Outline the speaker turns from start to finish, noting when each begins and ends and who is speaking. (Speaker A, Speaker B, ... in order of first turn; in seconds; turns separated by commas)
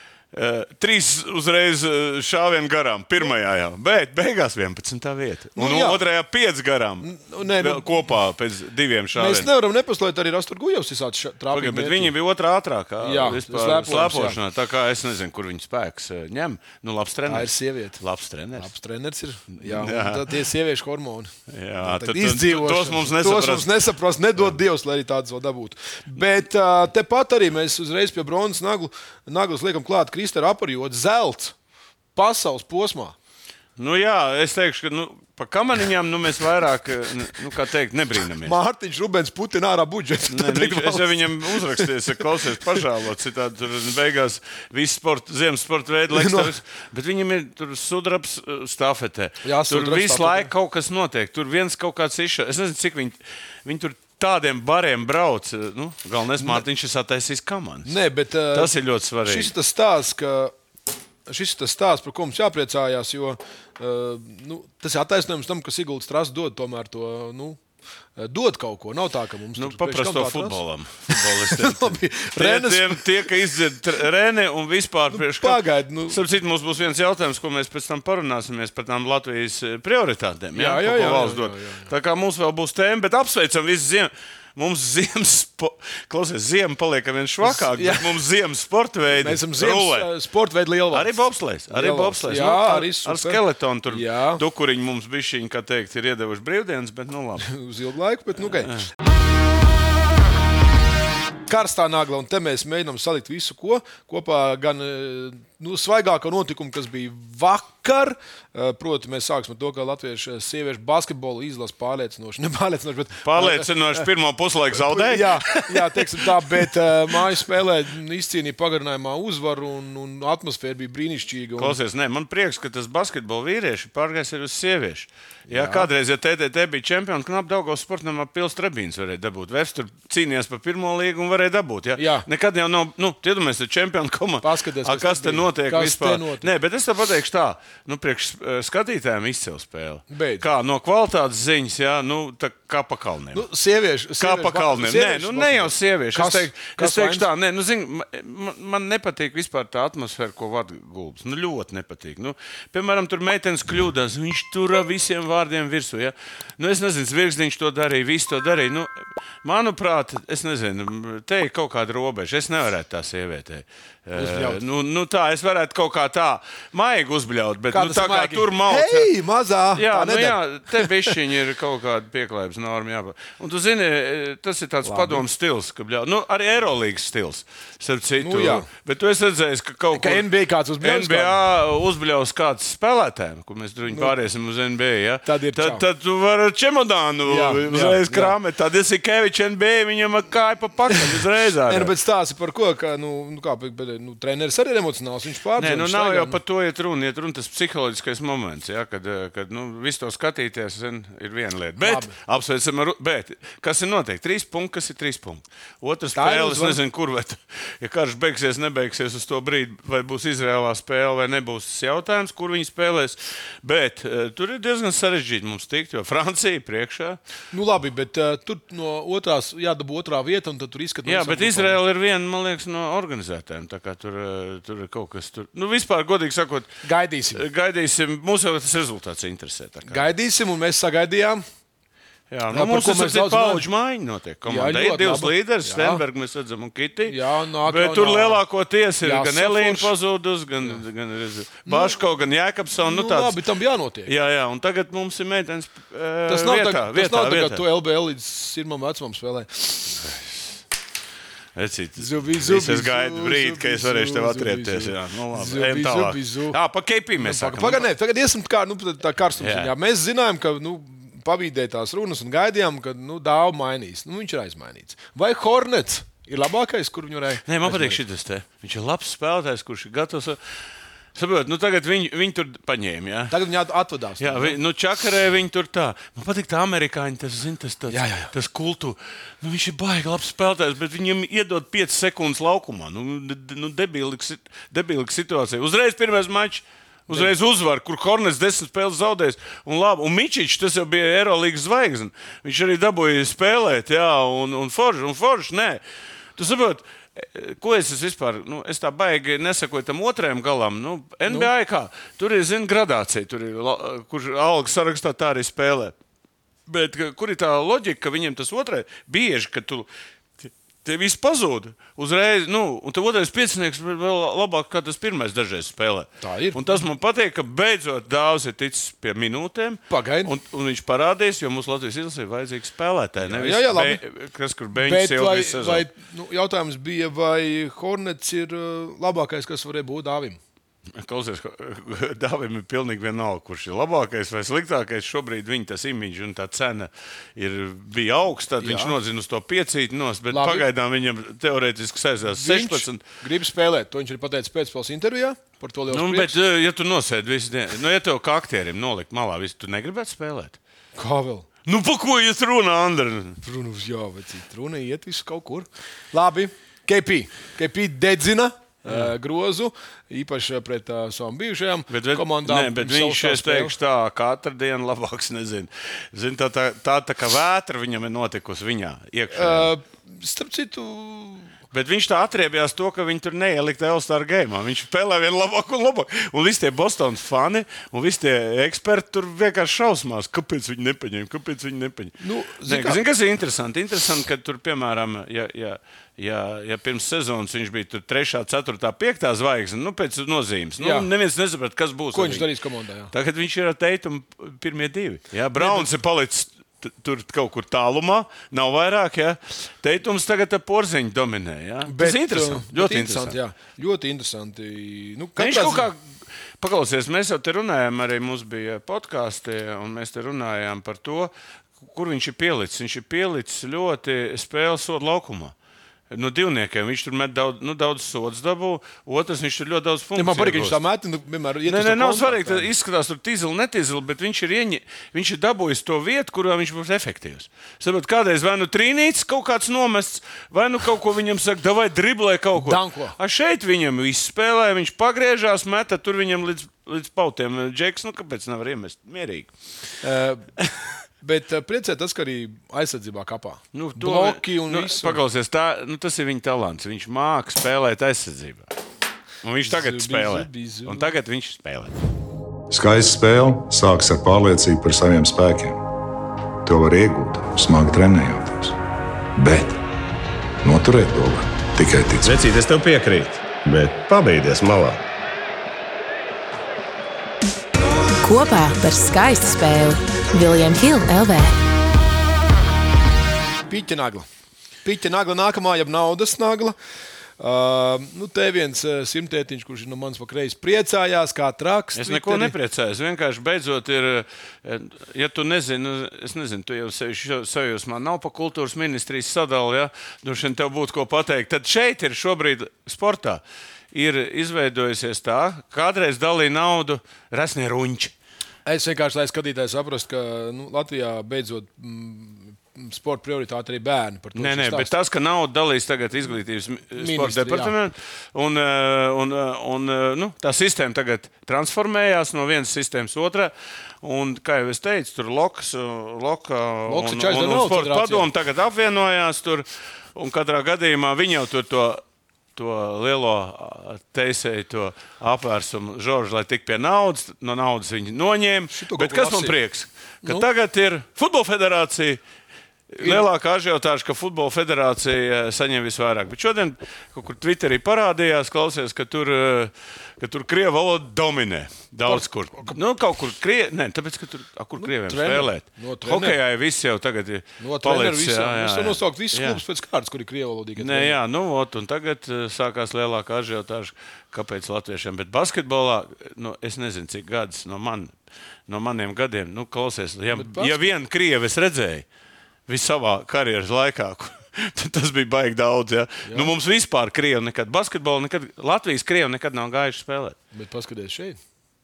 Speaker A: 0.3-9.5, Speaker B: 5.5-6.0, Speaker B: 7.0-8.1, Speaker B: 9.1-12.1, Speaker A: 11.5-18.7, Speaker B: 13.0-14.4, Speaker B: 17.3-18.0, Speaker B: 18.6-31.5, Speaker A: 19.6-20.3, Speaker A: 21.5-23.7, Speaker B: 32.1-33.1, Speaker A: 33.8-38.5, Speaker B: 38.4-41.9, Speaker A: 40.3-57.9, Speaker B: 46.1-46.5, Speaker B: 49.4-50.5, Speaker B: 56.4-56.6, Speaker B: 57.8-58.7, Speaker A: 58.5-59.5, Speaker B: 59.2-60.5, Speaker B: 61.3-67.6, Speaker B: 68.2-73.5, Speaker A: 69.5-90.1, Speaker B: 75.1-76.2, Speaker B: 80.5-81.9, Speaker B: 87.4-88.2, Speaker B: 89.1-91.1, Speaker A: 90.9-97.5, Speaker B: 91.7-94.4, Speaker B: 97.4-98.7, Speaker B: 101.5-114.1, Speaker A: 113.2-116.7, Speaker B: 114.7-121.8, Speaker A: 121.6-143.5, Speaker B: 125.5-125.9, Speaker B: 131.9-132.3, Speaker B: 134.4-136.5, Speaker B: 140.1-140.5, Speaker B: 143.3-147.3, Speaker A: 144.2-169.1, Speaker B: 164.1-164.6, Speaker B: 167.7-171.1, Speaker A: 169.8-180.3, Speaker B: 174.8-175.2, Speaker B: 178.2-178.7, Speaker B: 179.9-181.3, Speaker A: 180.8-191.9, Speaker B: 183.9-184.1, Speaker B: 185.2-185.8, Speaker B: 187.2-188.3, Speaker B: 190.9-196.4, Speaker A: 195.6-217.2, Speaker B: 201.8-202.1, Speaker B: 206.1-206.8, Speaker B: 217.5-221.8, Speaker A: 221.1-226.8, Speaker B: 226.8-227.4, Speaker A: 227.3-230.1, Speaker B: 229.9-231.4, Speaker A: 232.3-243.4, Speaker B: 232.5-233.6, Speaker B: 234.4-236.0, Speaker B: 237.1-238.4, Speaker B: 239.0-239.9, Speaker B: 241.7-241.9, Speaker B: 242.8-244.1, Speaker A: 244.1-247.6, Speaker B: 246.3-250.1, Speaker A: 250.0-250.3, Speaker A: 251.6-257.9, Speaker B: 252.0-256.6, Speaker B: 257.1-268.0, Speaker A: 259.4-259.7, Speaker A: 267.4-270.4, Speaker A: 271.1-273.4, Speaker B: 273.3-274.6, Speaker A: 274.2-295.8, Speaker B: 277.9-278.3, Speaker A: 296.4-305.9, Speaker A: 306.7-309.9, Speaker A: 310.4-325.9, Speaker B: 316.2-316.6, Speaker B: 319.9-320.3, Speaker B: 323.2-324.0, Speaker B: 324.8-330.4, Speaker A: 330.9-343.0, Speaker B: 338.6-338.9, Speaker B: 340.3-340.6, Speaker B: 342.2-346.3, Speaker A: 345.9-350.6, Speaker B: 351.0-351.5, Speaker A: 351.6-353.4, Speaker B: 353.4-363.8, Speaker A: 358.9-359.1, Speaker A: 361.9-369.7, Speaker B: 369.3-371.5, Speaker A: 371.7-392.5, Speaker B: 382.2-383.0, Speaker B: 390.8-391.1, Speaker B: 392.1-393.1, Speaker A: 393.1-403.4, Speaker B: 395.6-395.9, Speaker B: 401.9-405.9, Speaker A: 405.4-406.0, Speaker A: 406.6-415.5, Speaker A: 416.1-420.8, Speaker B: 420.1-422.7, Speaker A: 421.6-439.5, Speaker B: 432.6-433.1, Speaker B: 440.0-440.5, Speaker B: 441.2-445.2, Speaker A: 443.7-448.7, Speaker A: 449.4-452.0, Speaker B: 449.6-451.1, Speaker C: 452.7-455.8, Speaker C: 456.6-458.8, Speaker C: 459.4-459.8, Speaker C: 460.6-462.4, Speaker D: 462.2-465.0, Speaker E: 468.2-471.5, Speaker B: 473.7-474.3, Speaker B: 474.8-476.8, Speaker B: 477.4-482.5, Speaker A: 481.9-498.1, Speaker B: 498.6-504.9, Speaker A: 504.4-522.0, Speaker B: 507.0-507.7, Speaker B: 516.9-518.3, Speaker A: 522.5-532.2, Speaker B: 528.7-529.6, Speaker A: 532.9-549.6, Speaker B: 542.0-542.8, Speaker B: 544.8-546.4, Speaker B: 547.6-551.2, Speaker A: 550.8-558.1, Speaker A: 558.7-562.0, Speaker B: 560.3-560.8, Speaker A: 562.7-570.4, Speaker B: 566.2-566.5, Speaker B: 570.5-571.4